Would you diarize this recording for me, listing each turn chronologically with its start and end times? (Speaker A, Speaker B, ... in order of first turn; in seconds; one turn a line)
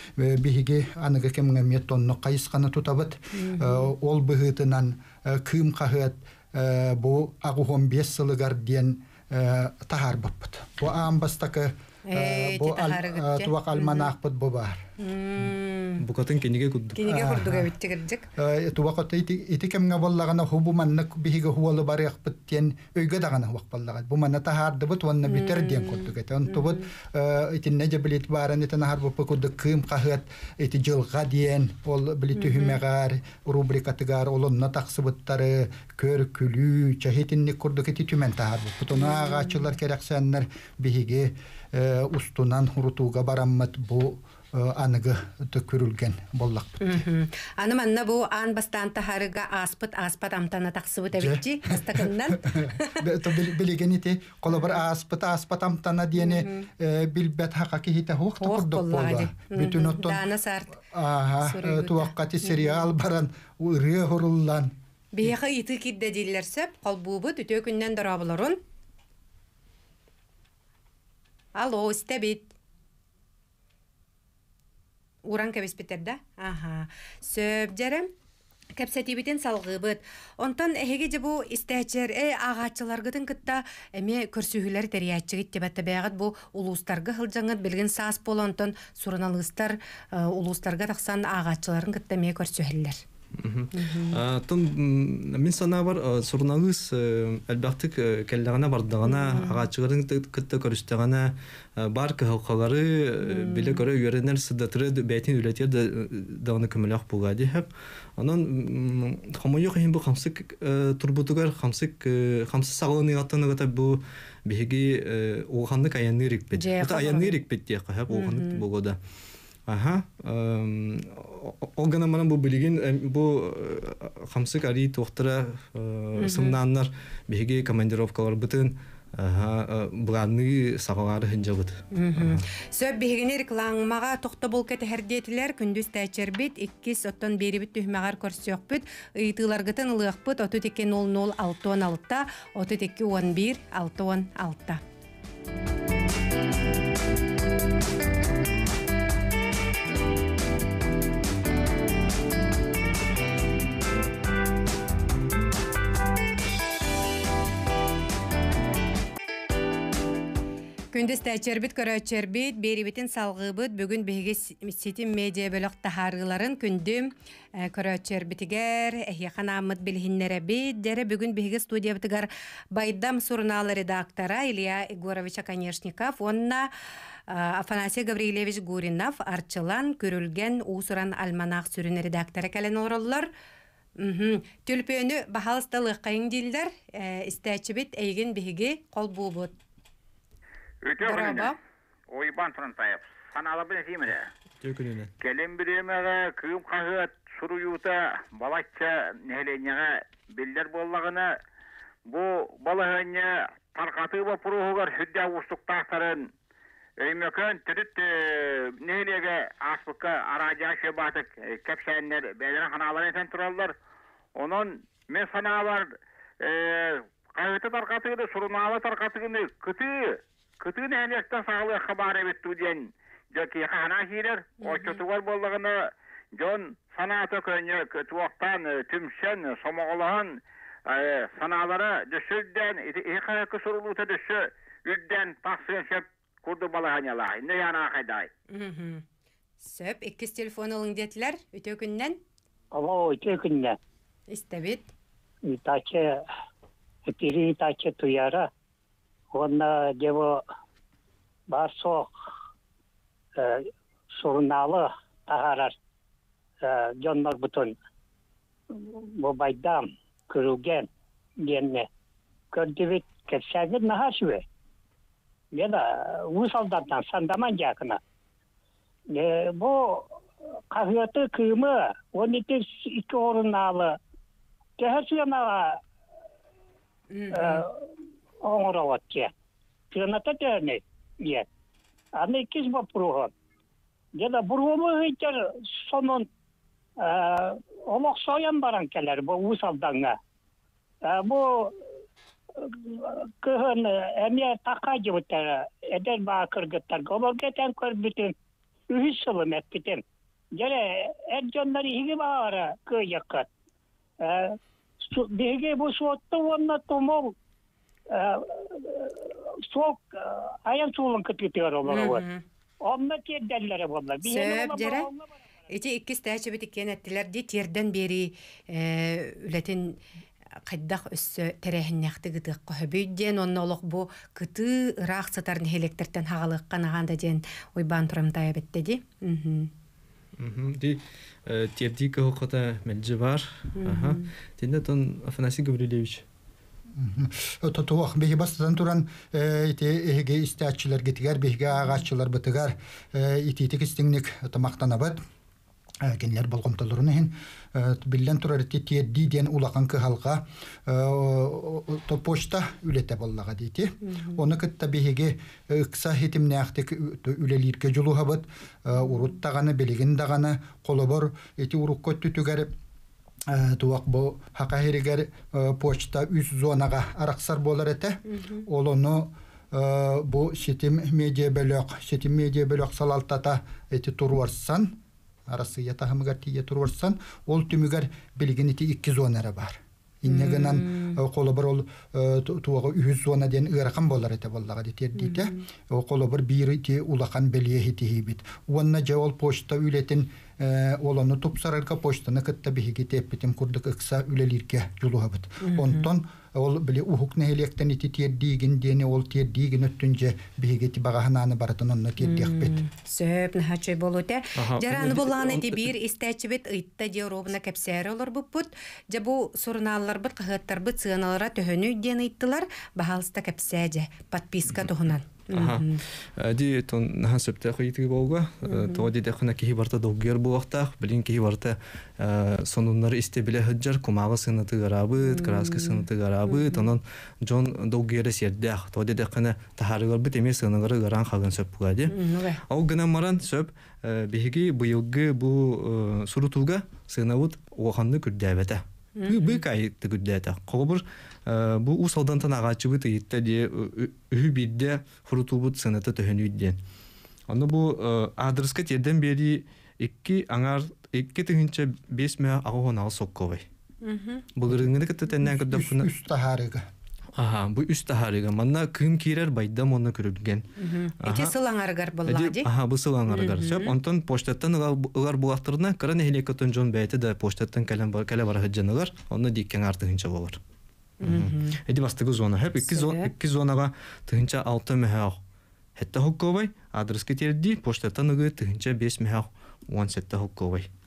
Speaker A: 0.2-14.8
Speaker B: 3.3-3.9
Speaker B: 12.1-14.1
Speaker B: 15.0-16.0
Speaker C: 16.0-17.0
Speaker B: 16.9-18.3
Speaker A: 17.1-17.7
Speaker A: 18.4-47.0
Speaker B: 25.2-26.8
Speaker B: 32.4-32.8
Speaker B: 38.9-39.6
Speaker B: 46.8-53.0
Speaker A: 51.1-60.2
Speaker B: 54.5-54.8
Speaker B: 56.2-56.7
Speaker B: 58.4-60.7
Speaker A: 60.9-64.7
Speaker B: 61.4-62.9
Speaker B: 65.1-68.6
Speaker B: 71.5-72.5
Speaker B: 75.2-78.1
Speaker B: 78.8-93.0
Speaker C: 93.3-119.0
Speaker B: 93.7-94.2
Speaker B: 99.0-99.7
Speaker B: 103.2-103.8
Speaker B: 116.5-117.4
Speaker B: 118.1-118.6
Speaker C: 119.7-132.4
Speaker B: 126.2-126.6
Speaker B: 131.9-144.8
Speaker B: 160.9-176.7
Speaker B: 177.3-183.3
Speaker B: 184.0-189.6
Speaker D: 190.8-191.6
Speaker B: 191.0-191.6
Speaker D: 192.1-194.3
Speaker C: 194.6-195.1
Speaker D: 195.2-201.3
Speaker D: 202.1-206.3
Speaker D: 207.0-213.7
Speaker D: 214.3-238.3
Speaker B: 224.6-225.0
Speaker B: 238.5-239.0
Speaker B: 239.6-242.2
Speaker E: 242.7-243.8
Speaker B: 244.3-244.9
Speaker E: 245.5-246.2
Speaker E: 247.1-248.5
Speaker E: 249.3-250.4
Speaker E: 251.5-252.1
Speaker E: 253.3-255.8
Speaker E: 256.6-257.8
Speaker E: 258.7-260.9
Speaker E: 261.4-261.9
Speaker E: 262.5-264.4
Speaker E: 265.5-268.0
Speaker E: 269.1-270.1
Speaker E: 270.7-274.0
Speaker E: 274.8-275.8
Speaker B: 277.1-277.6
Speaker E: 277.3-277.8
Speaker E: 278.4-279.3
Speaker E: 279.9-281.5
Speaker E: 282.1-283.3
Speaker E: 284.2-286.3
Speaker E: 287.0-290.1
Speaker E: 291.1-291.8
Speaker E: 292.6-298.3
Speaker E: 298.9-300.0
Speaker E: 300.6-303.5
Speaker E: 304.2-307.3
Speaker E: 308.1-312.2
Speaker B: 311.9-312.4
Speaker E: 312.8-315.3
Speaker B: 314.2-315.1
Speaker B: 315.7-320.0
Speaker B: 320.7-329.7
Speaker C: 330.4-336.2
Speaker B: 333.8-334.3
Speaker A: 337.0-345.2
Speaker A: 346.0-362.7
Speaker B: 354.0-354.4
Speaker A: 363.5-374.9
Speaker B: 368.3-368.6
Speaker A: 375.5-402.7
Speaker B: 380.3-381.2
Speaker B: 385.1-385.6
Speaker B: 395.6-396.1
Speaker B: 402.2-416.0
Speaker C: 404.6-405.9
Speaker C: 415.5-432.2
Speaker B: 418.6-419.1
Speaker B: 425.2-426.9
Speaker B: 432.1-432.6
Speaker C: 432.7-446.8
Speaker B: 439.2-439.6
Speaker C: 447.5-453.6
Speaker B: 454.0-454.5
Speaker C: 454.6-456.1
Speaker A: 455.4-456.8
Speaker C: 457.4-460.7
Speaker B: 460.8-462.7
Speaker C: 461.2-461.5
Speaker C: 462.2-470.6
Speaker B: 463.3-463.9
Speaker B: 471.2-471.8
Speaker C: 471.2-475.4
Speaker B: 472.8-473.3
Speaker C: 475.9-480.9